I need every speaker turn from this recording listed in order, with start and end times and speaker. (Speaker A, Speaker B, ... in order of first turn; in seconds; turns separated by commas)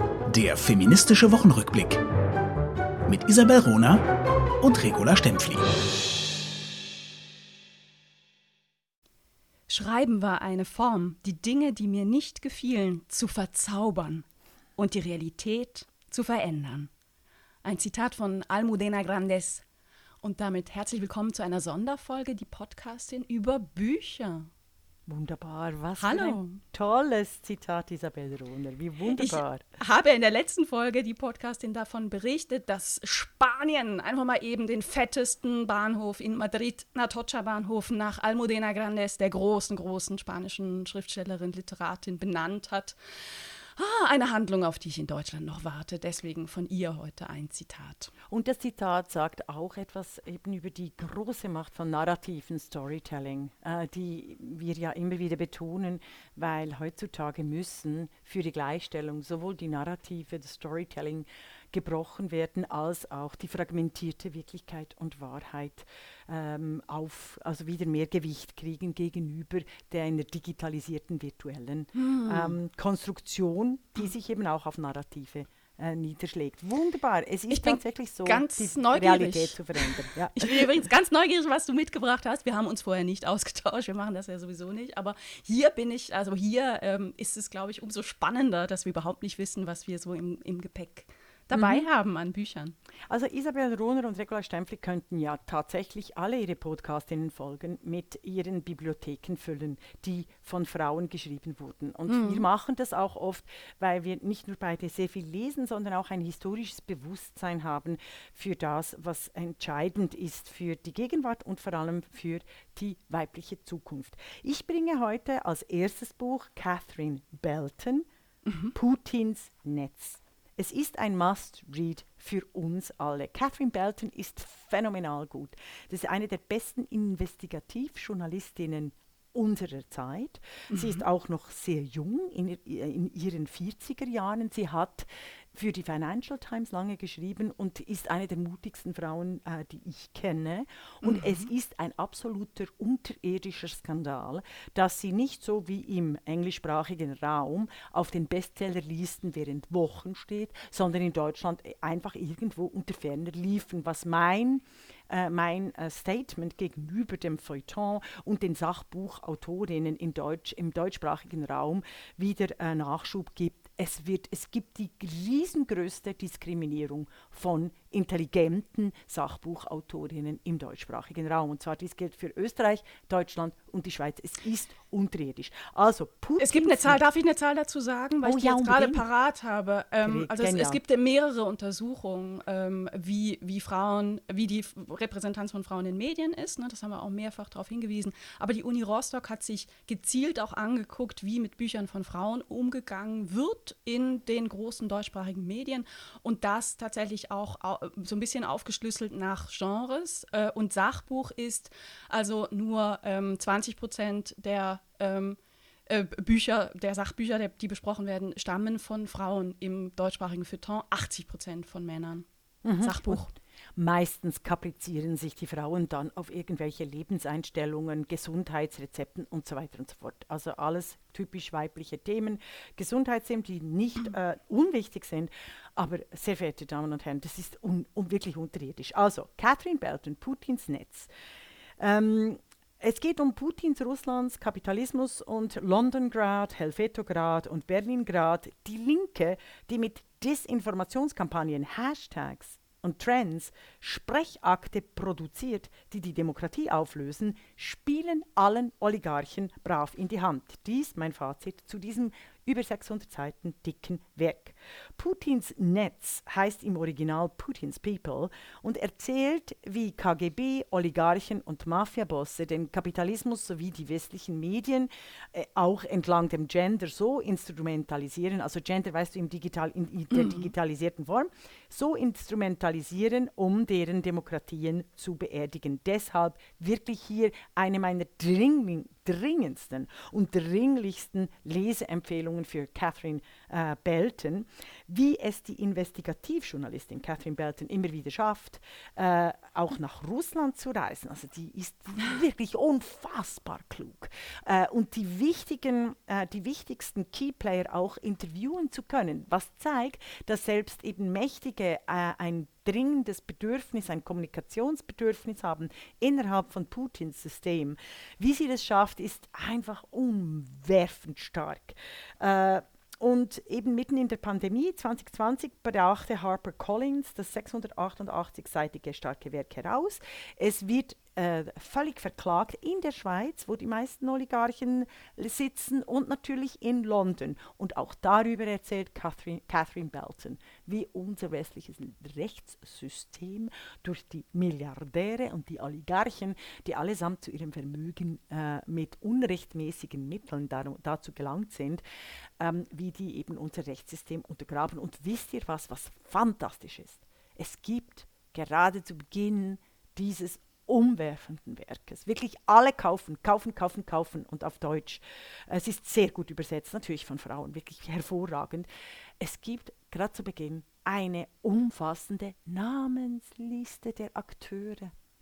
Speaker A: 0.3-2.0, Speaker A: 3.0-4.0, Speaker A: 4.6-5.7, Speaker B: 9.7-14.2, Speaker B: 14.8-16.9, Speaker B: 17.6-19.6, Speaker B: 20.2-24.5, Speaker C: 25.1-29.6, Speaker B: 26.0-26.6, Speaker B: 29.1-48.1, Speaker C: 48.3-80.7, Speaker B: 71.9-72.6, Speaker B: 77.5-92.8, Speaker C: 91.5-91.8, Speaker C: 93.1-118.0, Speaker B: 102.1-102.4, Speaker B: 118.5-118.7, Speaker C: 118.7-177.0, Speaker B: 130.7-131.0, Speaker B: 141.0-141.4, Speaker B: 176.4-212.2, Speaker C: 178.2-179.0, Speaker C: 180.0-180.8, Speaker C: 212.6-231.1, Speaker B: 212.8-213.3, Speaker C: 231.8-341.8, Speaker B: 270.1-270.5, Speaker C: 342.4-358.7, Speaker C: 359.2-364.9